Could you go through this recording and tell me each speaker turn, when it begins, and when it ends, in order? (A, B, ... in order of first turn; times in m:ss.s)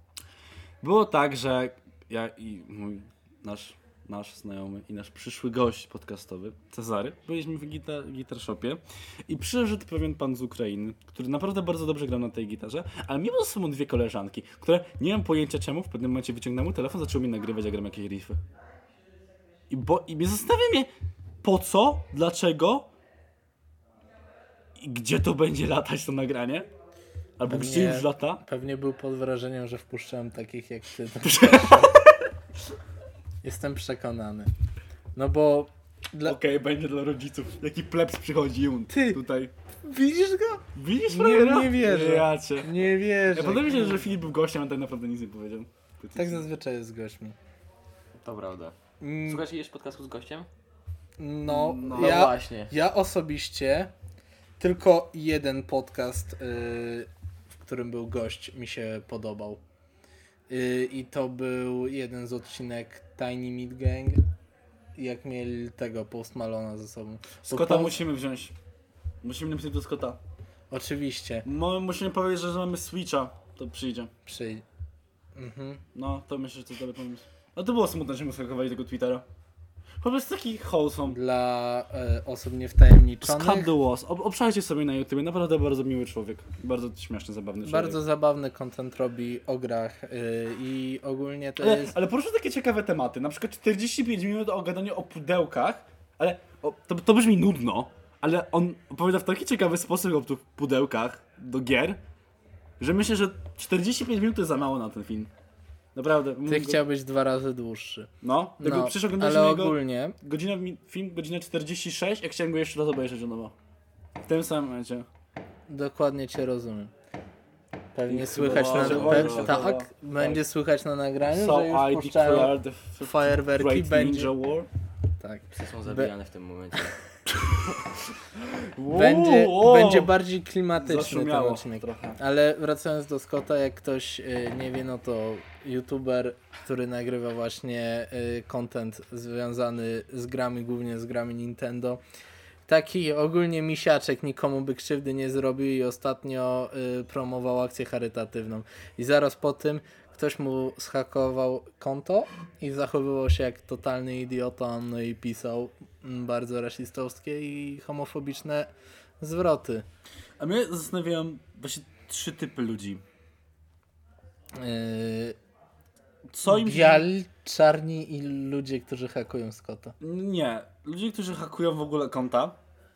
0:00.8-0:18.4 A
0:19.7-0:20.9 A
0:21.4-0:22.9 A
0:24.8-0:26.7 A
0:27.4-0:28.4 A
0:27.5-0:32.0 B
0:31.2-0:32.2 A
0:33.4-0:34.5 B
0:35.2-0:36.4 B
0:36.2-0:39.5 A
0:38.9-0:39.2 B
0:39.8-0:44.1 B
0:40.8-0:46.5 A
0:46.2-0:47.4 B
0:48.2-0:50.5 C
0:49.0-0:49.4 B
0:51.2-0:53.9 B
0:51.5-0:52.2 A
0:51.9-0:52.7 C
0:54.6-0:59.6 B
1:00.5-1:04.2 B
1:05.0-1:08.0 B
1:07.4-1:08.6 A
1:09.2-1:10.2 A
1:10.7-1:11.5 B
1:11.4-1:14.1 A
1:14.2-1:14.6 B
1:15.4-1:15.8 B
1:16.0-1:19.3 A
1:20.0-1:21.2 A
1:21.1-1:23.7 B
1:23.2-1:28.0 A
1:27.6-1:32.0 B
1:31.6-1:42.0 A
1:42.8-1:45.3 A
1:46.0-1:46.8 A
1:46.5-1:50.2 B
1:48.2-1:53.6 A
1:54.2-1:55.1 A
1:55.7-1:56.9 B
1:58.0-2:04.4 B
1:58.1-2:00.4 A
1:58.5-1:59.7 C
2:01.3-2:04.7 A
2:05.2-2:06.1 B
2:05.6-2:07.0 C
2:07.4-2:10.2 A
2:08.9-2:22.0 B
2:10.8-2:12.2 A
2:22.7-2:39.8 B
2:40.4-2:43.0 A
2:44.6-2:45.4 B
2:46.3-2:47.1 A
2:46.4-2:50.0 B
2:50.0-2:52.6 A